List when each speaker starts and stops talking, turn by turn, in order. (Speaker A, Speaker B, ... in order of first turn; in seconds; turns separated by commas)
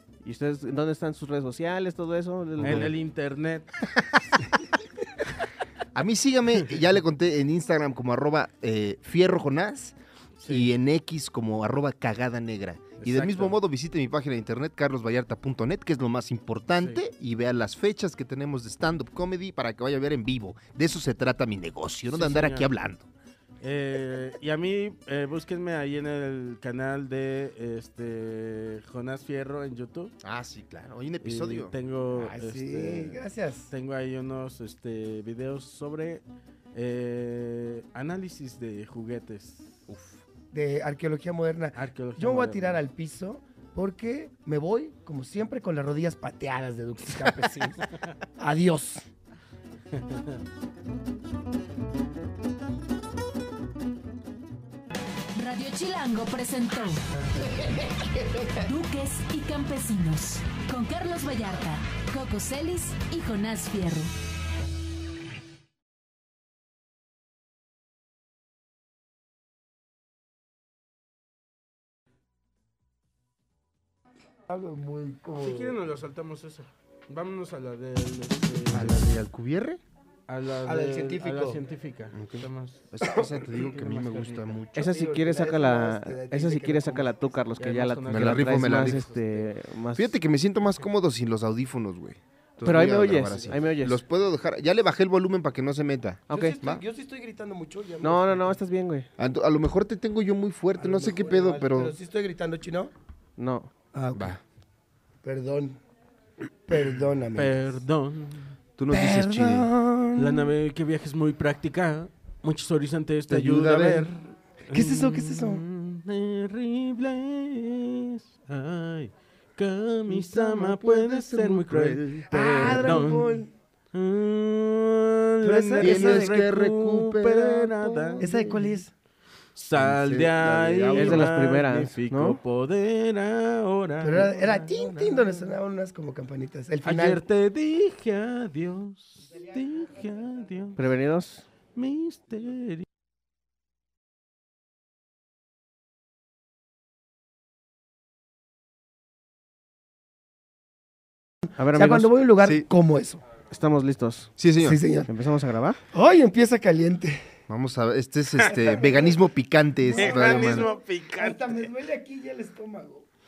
Speaker A: 0.2-2.9, Speaker B: 2.6-2.9, Speaker C: 2.6-3.7, Speaker B: 5.9-9.9, Speaker C: 10.4-10.7, Speaker B: 10.5-23.1, Speaker C: 13.0-13.6, Speaker C: 22.1-22.7, Speaker C: 23.6-30.1, Speaker B: 30.2-31.7, Speaker C: 31.2-36.2, Speaker D: 32.1-33.7, Speaker C: 36.7-39.8, Speaker B: 39.9-40.2, Speaker D: 40.5-49.0, Speaker C: 41.8-42.8, Speaker C: 49.9-50.4, Speaker E: 55.3-57.0, Speaker E: 58.6-64.1, Speaker D: 74.5-75.8, Speaker C: 75.4-79.1, Speaker B: 78.7-79.8, Speaker C: 80.3-84.6, Speaker D: 80.6-81.6, Speaker B: 82.1-84.9, Speaker A: 84.7-90.1, Speaker D: 84.8-87.3, Speaker C: 87.6-89.5, Speaker B: 88.1-89.0, Speaker B: 89.9-96.8, Speaker A: 92.6-94.0, Speaker D: 93.0-93.5, Speaker A: 96.3-96.6, Speaker D: 96.3-98.6, Speaker A: 98.0-99.1, Speaker B: 99.2-101.9, Speaker D: 100.7-102.9, Speaker A: 103.4-103.7, Speaker D: 103.9-104.3, Speaker B: 104.1-104.4, Speaker D: 105.2-105.8, Speaker D: 106.7-107.8, Speaker C: 107.3-108.5, Speaker B: 108.8-109.7, Speaker D: 108.9-110.5, Speaker C: 110.2-123.4, Speaker B: 113.3-114.1, Speaker D: 114.7-115.6, Speaker B: 120.1-123.1, Speaker D: 122.3-123.5, Speaker C: 123.9-128.6, Speaker D: 125.4-126.4, Speaker B: 125.8-128.5, Speaker D: 128.2-128.9, Speaker C: 129.6-135.5, Speaker B: 129.7-131.3, Speaker A: 130.9-132.4, Speaker D: 134.0-137.2, Speaker C: 136.8-140.8, Speaker D: 139.2-140.5, Speaker A: 140.8-141.4, Speaker C: 141.7-142.8, Speaker A: 151.6-152.1, Speaker D: 151.7-153.2, Speaker B: 152.4-152.7, Speaker A: 153.5-154.3, Speaker B: 154.4-154.8, Speaker D: 154.6-155.1, Speaker A: 155.1-155.8, Speaker D: 155.9-157.2, Speaker B: 157.5-160.7, Speaker D: 158.5-159.2, Speaker D: 159.8-163.1, Speaker C: 159.9-161.7